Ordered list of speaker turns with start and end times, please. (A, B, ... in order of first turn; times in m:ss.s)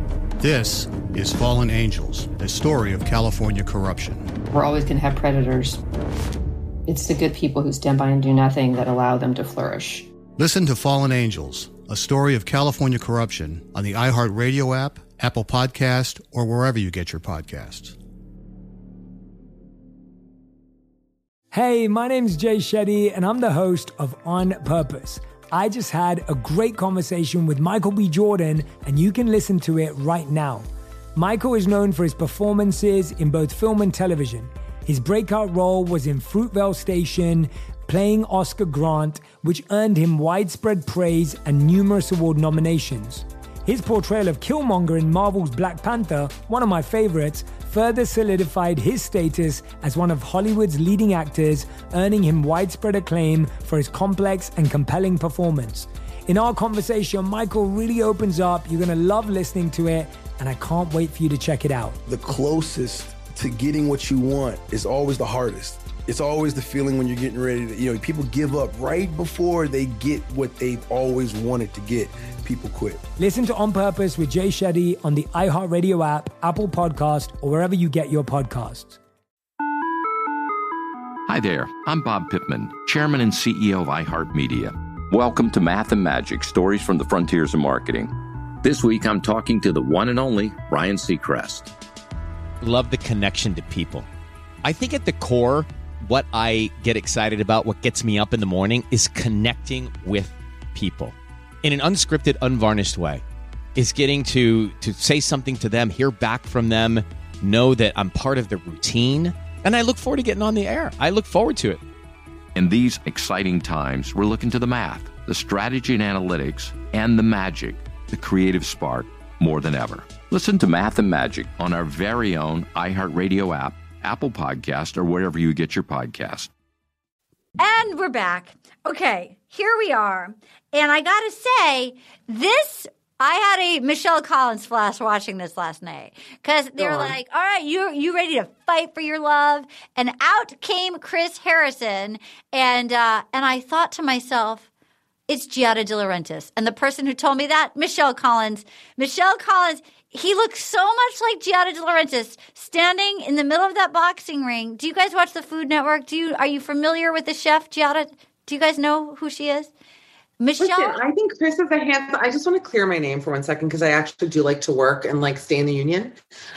0:00.4-0:04.3 A
0:04.5-0:05.8 B
0:06.9-0:10.1 B
0:10.4-0:18.0 A
0:21.5-1:02.0 C
1:02.1-1:13.0 D
1:13.2-1:19.0 C
1:21.3-1:31.7 E
1:32.6-1:34.1 F
1:34.6-1:43.2 F
1:43.8-1:51.8 F
1:52.6-2:06.5 E
2:07.6-2:24.7 G
2:16.8-2:17.1 H
2:25.3-2:39.7 G
2:40.4-2:41.0 G
2:40.6-2:46.2 H